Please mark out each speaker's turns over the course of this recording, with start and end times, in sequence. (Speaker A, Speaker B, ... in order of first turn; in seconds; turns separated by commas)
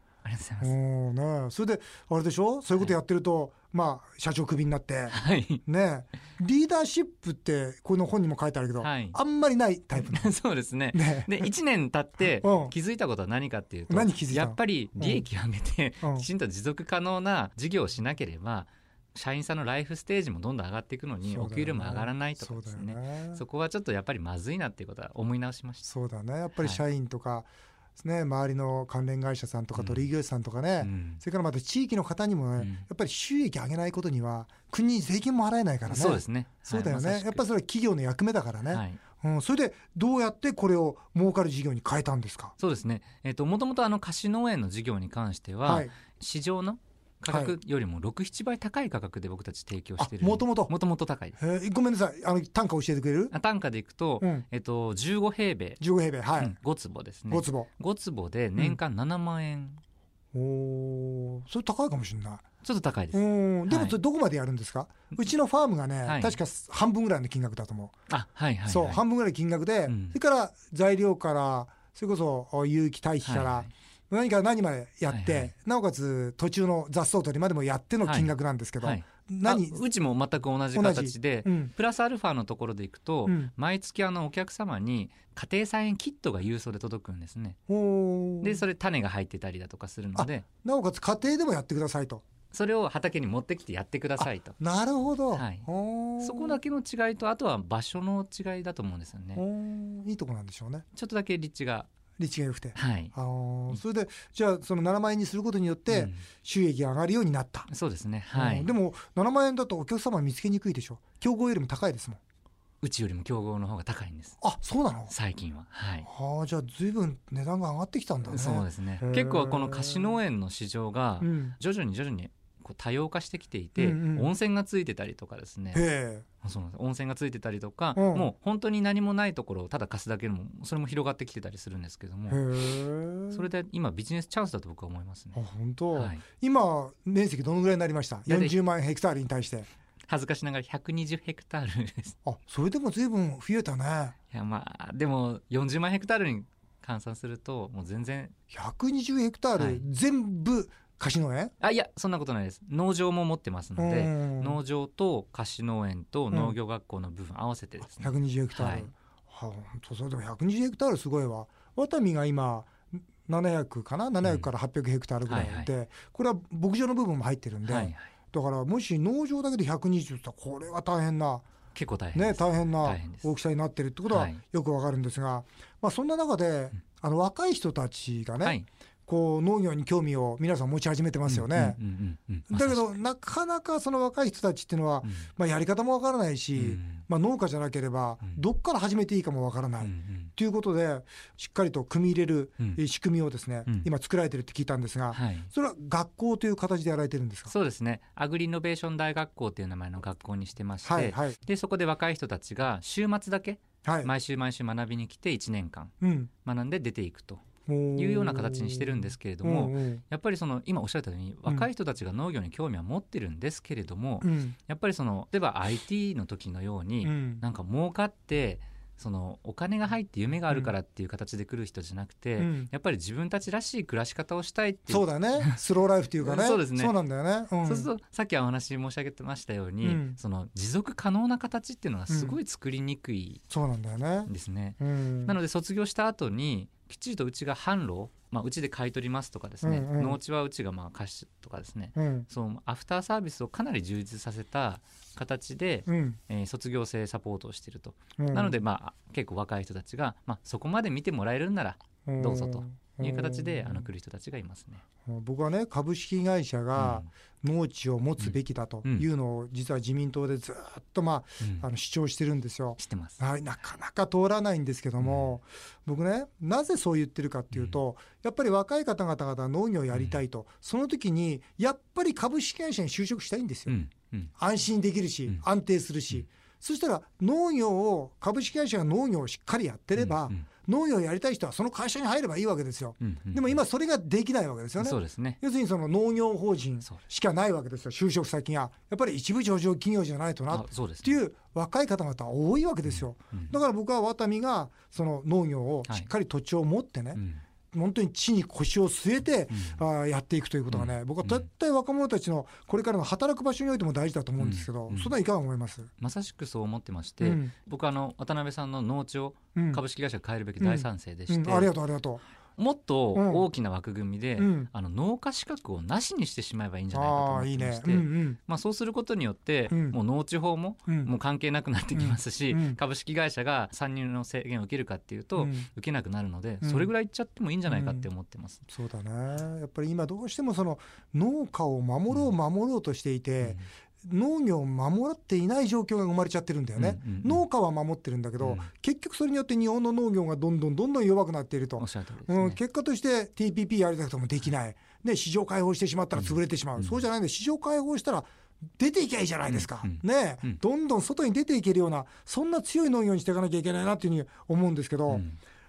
Speaker A: 0.2-0.8, Speaker B: 0.6-10.3, Speaker A: 5.1-5.6, Speaker A: 8.8-9.2, Speaker A: 9.9-25.9, Speaker B: 10.9-11.5, Speaker B: 12.4-12.7, Speaker B: 13.9-15.2, Speaker B: 16.0-16.2, Speaker B: 21.3-23.4, Speaker B: 25.8-42.5, Speaker A: 26.6-26.8, Speaker A: 29.7-30.1, Speaker A: 30.8-31.2, Speaker A: 32.6-32.8, Speaker A: 35.9-37.4, Speaker A: 38.7-39.0, Speaker A: 42.6-51.4, Speaker B: 45.6-45.9, Speaker B: 47.3-47.5, Speaker B: 50.0-50.7, Speaker B: 51.4-53.3, Speaker A: 53.3-55.8, Speaker B: 55.8-56.5, Speaker A: 56.4-59.8, Speaker B: 57.3-57.7, Speaker B: 60.3-62.4, Speaker A: 62.6-64.0, Speaker B: 63.1-67.9, Speaker A: 66.0-66.4, Speaker A: 68.1-69.0, Speaker B: 68.7-79.8, Speaker A: 69.9-70.2, Speaker A: 73.2-73.7, Speaker A: 75.1-75.5, Speaker A: 78.0-87.6, Speaker B: 80.7-81.7, Speaker B: 83.2-83.5, Speaker B: 87.7-88.6, Speaker A: 88.4-90.4, Speaker B: 90.1-92.2, Speaker A: 92.5-94.6, Speaker B: 94.2-96.6, Speaker A: 95.3-95.7, Speaker A: 96.2-99.4, Speaker B: 99.3-100.8, Speaker A: 100.9-101.9, Speaker B: 102.2-107.7, Speaker A: 102.7-103.1, Speaker A: 105.9-106.2, Speaker A: 107.7-108.7, Speaker B: 108.3-112.2, Speaker A: 112.8-114.4, Speaker B: 114.4-115.1, Speaker A: 115.1-116.1, Speaker B: 116.0-120.2, Speaker A: 118.3-125.8, Speaker B: 121.2-121.5, Speaker B: 123.8-124.3, Speaker B: 125.7-126.2, Speaker A: 126.4-132.5, Speaker B: 128.0-128.3, Speaker B: 132.3-133.4, Speaker A: 133.3-135.4, Speaker B: 135.3-139.7, Speaker A: 135.9-136.2, Speaker A: 138.3-138.6, Speaker A: 140.1-142.2, Speaker B: 142.2-144.2, Speaker A: 144.3-148.3, Speaker B: 148.5-151.5, Speaker A: 149.6-149.8, Speaker A: 151.6-158.9, Speaker B: 153.8-154.6, Speaker B: 156.3-156.6, Speaker B: 158.0-171.4, Speaker A: 164.2-164.5, Speaker A: 165.2-165.7, Speaker A: 167.6-168.1, Speaker A: 171.7-173.3, Speaker B: 172.1-181.8, Speaker A: 174.1-174.4, Speaker A: 181.2-182.9, Speaker B: 182.5-197.5, Speaker A: 186.5-187.0, Speaker A: 189.8-190.3, Speaker A: 195.1-195.5, Speaker A: 197.5-205.9, Speaker B: 200.8-201.4, Speaker B: 203.8-204.1, Speaker B: 206.0-206.3, Speaker A: 206.4-207.4, Speaker B: 207.7-210.0, Speaker A: 207.9-225.6, Speaker B: 214.2-214.6, Speaker B: 217.0-217.4, Speaker B: 222.4-222.7, Speaker B: 224.9-227.9, Speaker A: 226.2-226.9, Speaker A: 227.6-233.4, Speaker B: 229.8-230.2, Speaker B: 232.1-232.3, Speaker B: 233.5-235.3, Speaker A: 234.3-254.8, Speaker B: 239.6-240.2, Speaker B: 241.9-242.3, Speaker B: 245.9-246.2, Speaker B: 248.2-248.6, Speaker B: 252.0-253.9, Speaker B: 255.1-273.8, Speaker A: 256.7-257.1, Speaker A: 258.2-259.1, Speaker A: 261.4-261.7, Speaker A: 262.8-263.2, Speaker A: 265.0-265.3, Speaker A: 267.5-267.8, Speaker A: 269.9-270.2, Speaker A: 273.7-274.3, Speaker B: 274.4-297.2, Speaker A: 279.9-280.4, Speaker A: 283.0-283.6, Speaker A: 284.8-285.4, Speaker A: 290.5-291.2, Speaker A: 292.8-293.6, Speaker A: 297.1-297.4, Speaker B: 297.7-305.9, Speaker A: 299.5-299.8, Speaker A: 300.7-301.4, Speaker A: 304.4-305.1, Speaker A: 306.0-311.7, Speaker B: 307.2-307.5, Speaker B: 309.5-309.8, Speaker B: 310.6-312.2, Speaker A: 312.6-328.6, Speaker B: 313.1-313.4, Speaker B: 314.4-314.7, Speaker B: 316.9-318.4, Speaker B: 319.7-320.0, Speaker B: 321.9-322.8, Speaker B: 325.4-325.7, Speaker B: 326.6-326.9, Speaker B: 327.7-328.1, Speaker B: 328.7-355.2, Speaker A: 333.4-333.6, Speaker A: 336.8-337.4, Speaker A: 338.4-338.7, Speaker A: 341.8-342.6, Speaker A: 346.1-347.0, Speaker A: 349.5-350.6, Speaker A: 355.1-355.4